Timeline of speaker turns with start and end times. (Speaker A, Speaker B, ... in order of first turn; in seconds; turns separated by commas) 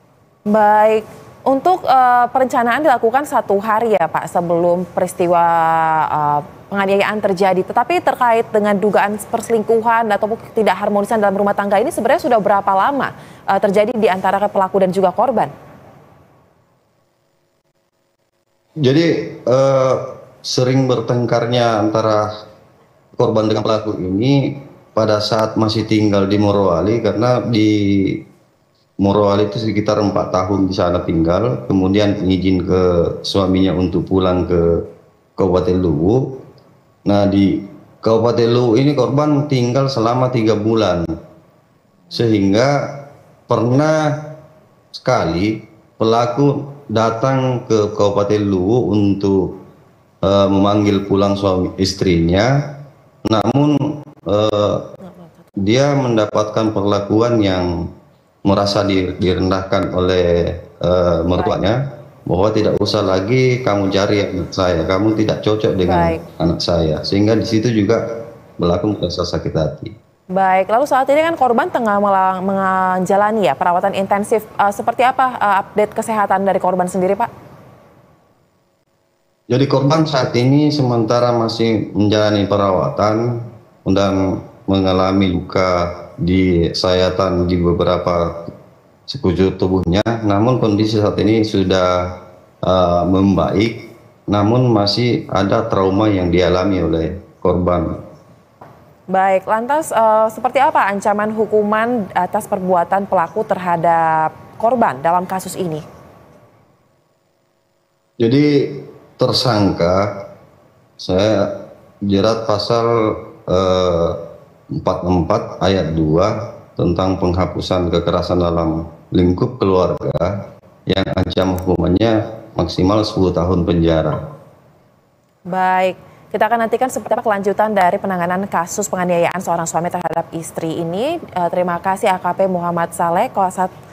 Speaker A: 0.5-15.5, Speaker B: 18.8-22.3, Speaker B: 23.2-28.2, Speaker B: 29.0-34.9, Speaker B: 35.4-36.4, Speaker B: 37.0-41.1, Speaker B: 42.1-44.4, Speaker B: 44.9-49.6, Speaker B: 50.2-54.9, Speaker B: 55.6-57.9, Speaker B: 58.5-70.0, Speaker A: 65.8-66.2, Speaker A: 70.3-77.3, Speaker B: 79.5-88.5, Speaker B: 89.1-98.0, Speaker A: 99.1-105.8, Speaker B: 108.2-110.3, Speaker B: 111.0-124.2, Speaker A: 125.5-133.7